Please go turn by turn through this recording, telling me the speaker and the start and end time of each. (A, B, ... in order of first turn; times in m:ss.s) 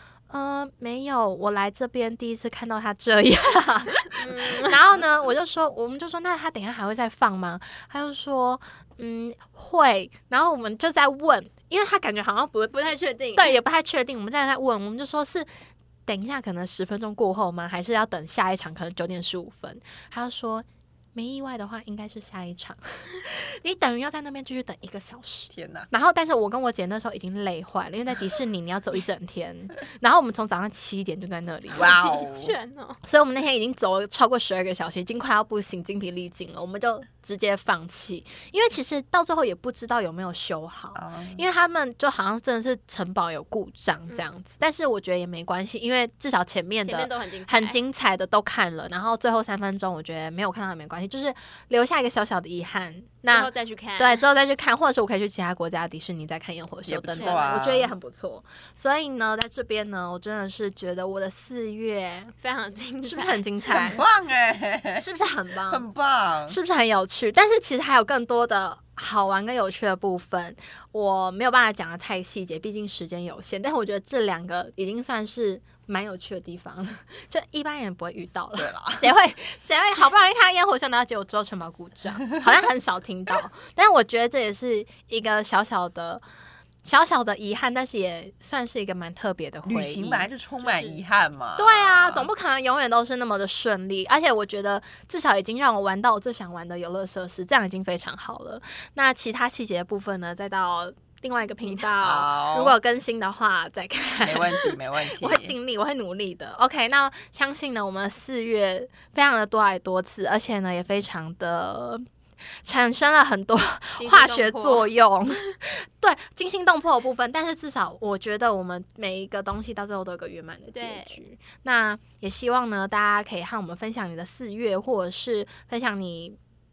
0:00.3-0:12.8 A
0:04.2-0:05.0 B
0:12.7-0:13.6 B
0:13.4-0:15.5 A
0:16.1-0:31.9 A
0:25.5-0:25.9 C
0:31.7-0:33.0 B
0:31.7-0:32.5 C
0:33.0-1:02.3 A
0:41.0-0:41.4 C
0:46.8-0:47.8 B
0:53.3-0:54.2 B
0:56.9-0:57.9 C
0:57.2-0:57.6 B
1:02.4-1:03.4 B
1:03.0-1:04.0 A
1:03.7-1:05.0 C
1:05.0-1:05.9 A
1:05.7-1:06.6 C
1:06.5-1:26.2 A
1:18.6-1:19.1 C
1:26.8-1:30.3 A
1:29.7-1:32.3 C
1:30.6-1:31.0 B
1:31.6-1:52.0 A
1:42.0-1:42.8 C
1:44.2-1:45.5 C
1:52.6-2:06.4 A
1:54.0-1:54.9 B
2:00.7-2:01.2 B